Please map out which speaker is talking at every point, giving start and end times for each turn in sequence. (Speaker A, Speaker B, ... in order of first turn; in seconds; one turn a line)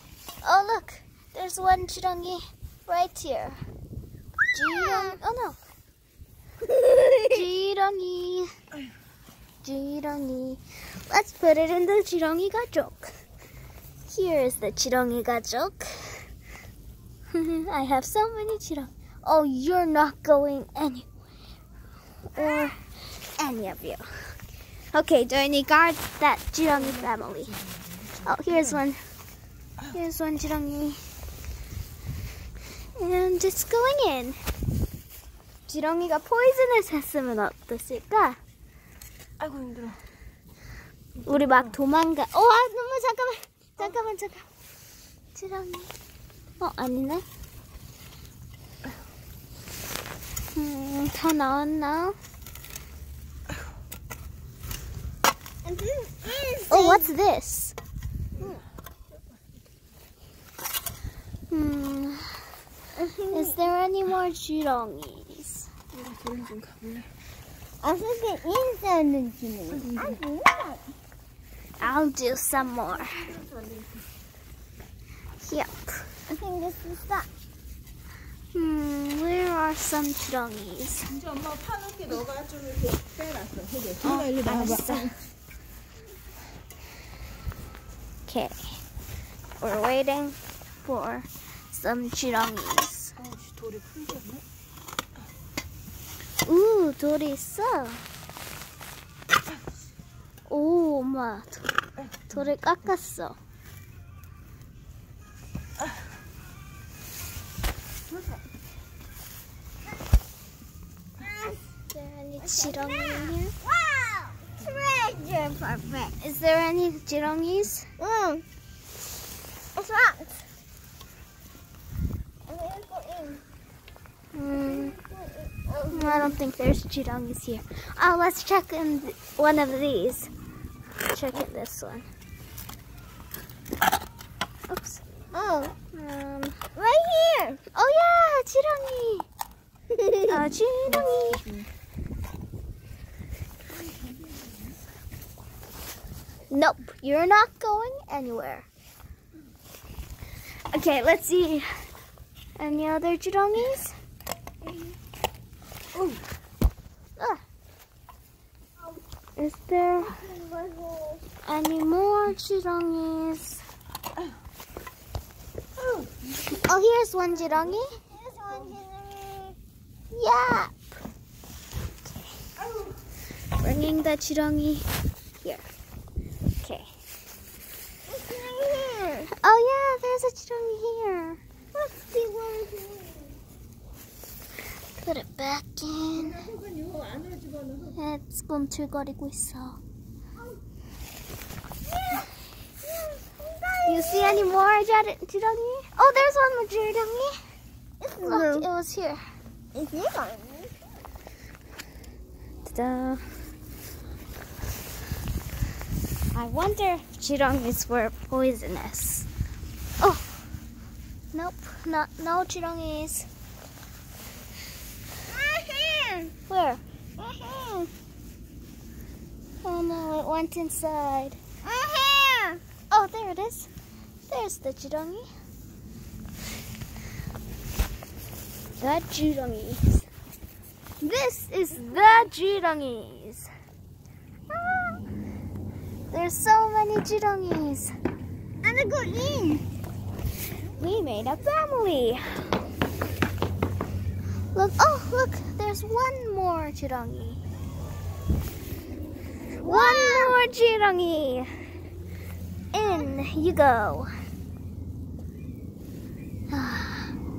Speaker A: 0.4-3.6
Speaker A: 4.5-5.6
Speaker B: 4.7-5.2
Speaker B: 6.6-7.4
Speaker A: 7.3-8.5
Speaker A: 9.6-13.1
Speaker A: 14.1-16.2
Speaker A: 17.3-21.1
Speaker A: 22.3-24.3
Speaker A: 24.9-27.6
Speaker A: 28.2-29.0
Speaker A: 29.9-31.0
Speaker A: 33.0-34.4
Speaker A: 35.7-38.4
Speaker C: 39.4-40.0
Speaker A: 41.2-44.5
Speaker A: 45.3-45.9
Speaker A: 46.6-47.2
Speaker A: 50.5-52.2
Speaker B: 55.6-57.1
Speaker A: 56.7-57.8
Speaker A: 61.5-62.4
Speaker B: 63.0-63.6
Speaker A: 63.3-65.7
Speaker C: 66.0-67.0
Speaker B: 67.8-70.9
Speaker A: 71.8-73.4
Speaker A: 75.4-76.1
Speaker B: 76.3-77.3
Speaker A: 78.5-81.2
Speaker C: 81.5-82.9
Speaker C: 83.6-84.9
Speaker A: 84.0-85.2
Speaker A: 88.2-88.6
Speaker A: 89.6-93.2
Speaker C: 93.3-94.4
Speaker A: 96.4-98.0
Speaker A: 100.5-101.7
Speaker A: 102.3-103.4
Speaker B: 111.2-111.6
Speaker A: 111.9-113.5
Speaker B: 112.4-116.2
Speaker A: 116.2-117.9
Speaker B: 118.0-118.4
Speaker B: 119.7-120.4
Speaker B: 122.5-123.4
Speaker A: 124.3-124.9
Speaker B: 124.5-126.4
Speaker A: 125.9-130.3
Speaker A: 131.1-132.1
Speaker A: 134.7-135.0
Speaker B: 135.3-135.7
Speaker A: 135.9-136.6
Speaker B: 136.7-137.6
Speaker A: 137.7-139.3
Speaker B: 139.9-140.4
Speaker A: 140.3-141.5
Speaker A: 146.5-148.7
Speaker A: 150.7-151.7
Speaker A: 152.6-153.9
Speaker A: 157.2-157.4
Speaker A: 159.4-160.2
Speaker B: 160.0-161.2
Speaker A: 161.4-163.6
Speaker A: 166.6-167.9
Speaker B: 168.0-169.6
Speaker A: 170.1-170.8
Speaker A: 172.1-172.3
Speaker A: 173.6-174.9
Speaker A: 176.6-176.9
Speaker B: 178.1-179.3
Speaker A: 179.3-181.4
Speaker B: 181.7-183.3
Speaker A: 185.0-186.5
Speaker A: 187.9-189.8
Speaker B: 191.9-192.3
Speaker B: 192.8-194.5
Speaker A: 193.8-197.4
Speaker B: 198.0-198.7
Speaker A: 198.2-199.2
Speaker B: 199.7-200.7
Speaker A: 202.6-203.2
Speaker A: 206.3-209.3
Speaker A: 210.0-210.3
Speaker A: 211.3-213.3
Speaker B: 215.3-216.3
Speaker A: 216.5-216.8
Speaker B: 217.2-217.9
Speaker A: 219.6-221.4
Speaker B: 221.6-222.6
Speaker A: 222.9-223.7
Speaker A: 224.3-225.3
Speaker A: 228.8-230.1
Speaker A: 231.0-233.5
Speaker B: 234.5-235.0
Speaker A: 236.1-237.9
Speaker B: 238.6-239.7
Speaker A: 240.8-242.4
Speaker A: 244.5-247.4
Speaker B: 249.6-250.3
Speaker A: 249.6-251.5
Speaker A: 252.7-254.1
Speaker A: 256.5-257.1